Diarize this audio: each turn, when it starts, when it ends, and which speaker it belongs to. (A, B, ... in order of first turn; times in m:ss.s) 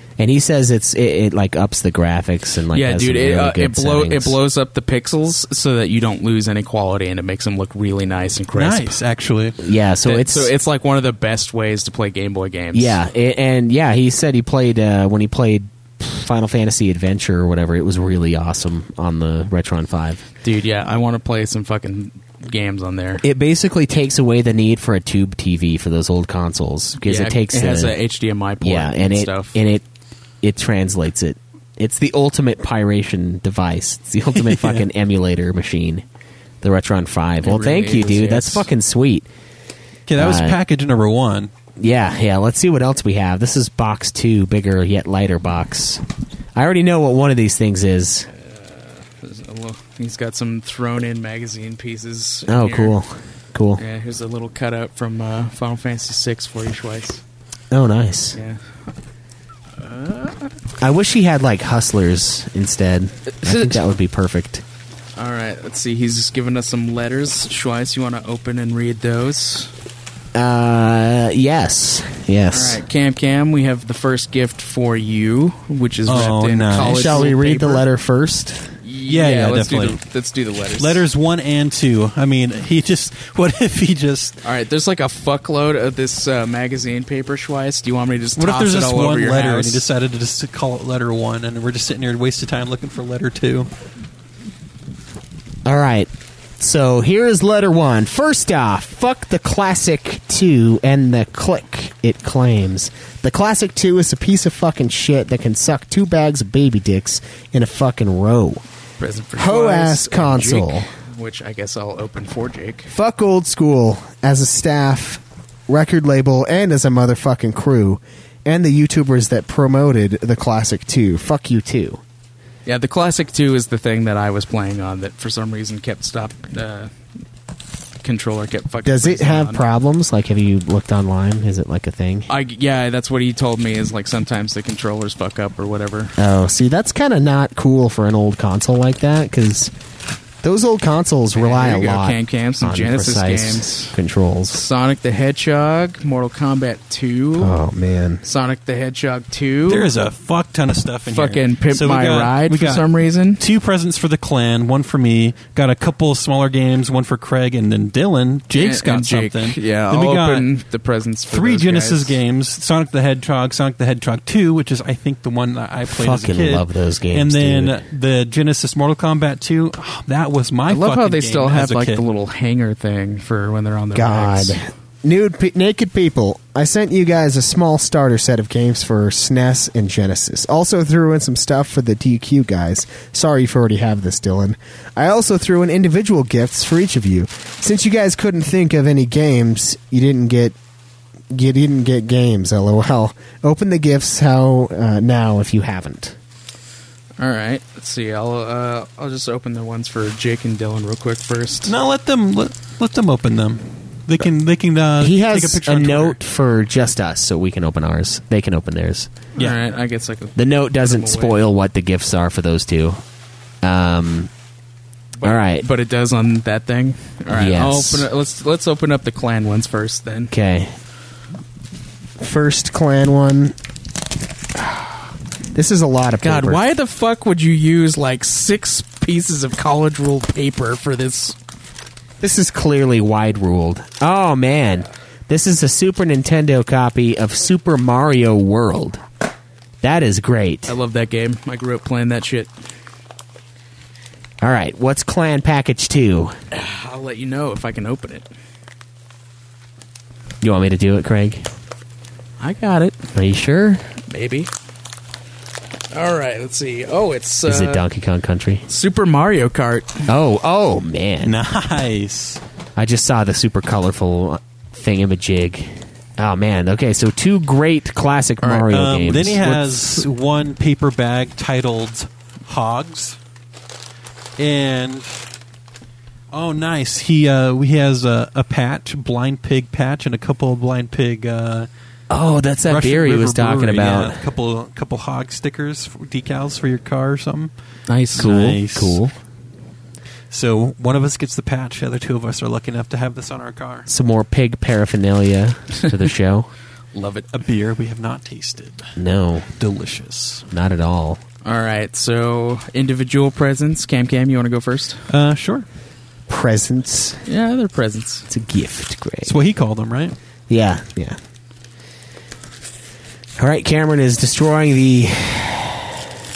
0:00.2-0:04.4 A
0:02.7-0:09.0 B
0:08.5-0:09.6 C
0:09.6-0:10.5 A
0:10.0-0:13.0 B
0:12.7-0:20.2 A
0:20.4-0:23.2 B
0:23.2-0:28.0 A
0:27.0-0:29.6 B
0:28.6-0:29.8 A
0:30.4-0:36.0 A
0:34.4-0:34.9 C
0:36.6-0:39.3 A
0:37.4-0:38.7 B
0:40.1-0:41.5 C
0:40.2-0:40.6 A
0:41.8-0:48.3 A
0:48.4-0:53.0 B
0:52.5-0:53.8 A
0:53.8-0:57.2 B
0:57.7-0:58.4 A
0:58.4-0:58.6 B
0:59.8-1:00.5 B
1:00.8-1:04.6 A
1:03.4-1:03.8 B
1:05.2-1:09.7 B
1:10.4-1:12.8 A
1:12.5-1:17.8 B
1:16.1-1:17.3 C
1:16.8-1:18.8 A
1:18.8-1:21.0 B
1:19.1-1:20.0 C
1:20.8-1:24.4 C
1:24.4-1:29.9 B
1:28.4-1:33.7 C
1:35.7-1:48.6 A
1:49.0-1:52.9 B
1:49.4-1:50.9 A
1:52.9-2:02.0 A
2:02.7-2:06.9 B
2:08.0-2:09.6 B
2:08.8-2:12.3 A
2:12.3-2:16.1 B
2:16.2-2:19.7 A
2:20.4-2:24.6 A
2:21.4-2:24.0 B
2:24.5-2:27.6 B
2:27.4-2:28.2 A
2:28.2-2:29.9 B
2:29.7-2:40.5 C
2:31.1-2:33.4 B
2:38.6-2:42.2 B
2:41.3-2:52.0 C
2:45.8-2:47.8 A
2:50.7-2:54.6 B
2:53.9-3:10.6 A
3:11.3-3:16.2 A
3:17.2-3:21.7 B
3:21.7-3:26.2 C
3:25.0-3:29.1 A
3:29.4-3:31.4 B
3:30.4-3:33.0 A
3:33.6-3:34.3 A
3:35.2-3:40.3 B
3:35.2-3:35.7 A
3:37.3-3:38.1 A
3:40.3-3:40.8 A
3:42.2-3:43.6 A
3:44.6-3:46.6 A
3:46.2-3:51.4 B
3:52.2-3:59.0 A
3:59.8-4:00.7 A
4:00.7-4:02.5 B
4:04.4-4:06.4 A
4:06.5-4:08.3 B
4:10.4-4:11.5 A
4:12.4-4:13.1 B
4:13.2-4:13.8 A
4:14.1-4:14.5 B
4:15.9-4:17.8 B
4:17.5-4:18.7 A
4:18.7-4:20.0 B
4:20.1-4:21.4 A
4:21.2-4:22.4 C
4:22.8-4:30.0 A
4:28.4-4:28.7 B
4:28.7-4:33.2 C
4:34.4-4:35.2 C
4:36.3-4:41.7 C
4:42.1-4:44.2 A
4:42.7-4:47.5 C
4:47.9-4:48.3 B
4:48.2-4:49.0 C
4:48.2-4:49.2 A
4:50.3-4:53.9 C
4:53.9-4:56.5 A
4:56.9-4:57.3 B
4:57.3-4:59.0 C
4:59.0-4:59.5 A
4:59.6-5:00.5 C
5:00.5-5:01.2 A
5:01.4-5:05.0 B
5:05.1-5:05.7 C
5:06.3-5:07.2 A
5:07.3-5:08.3 B
5:08.3-5:09.4 A
5:09.2-5:10.2 C
5:10.5-5:11.2 A
5:13.4-5:16.0 A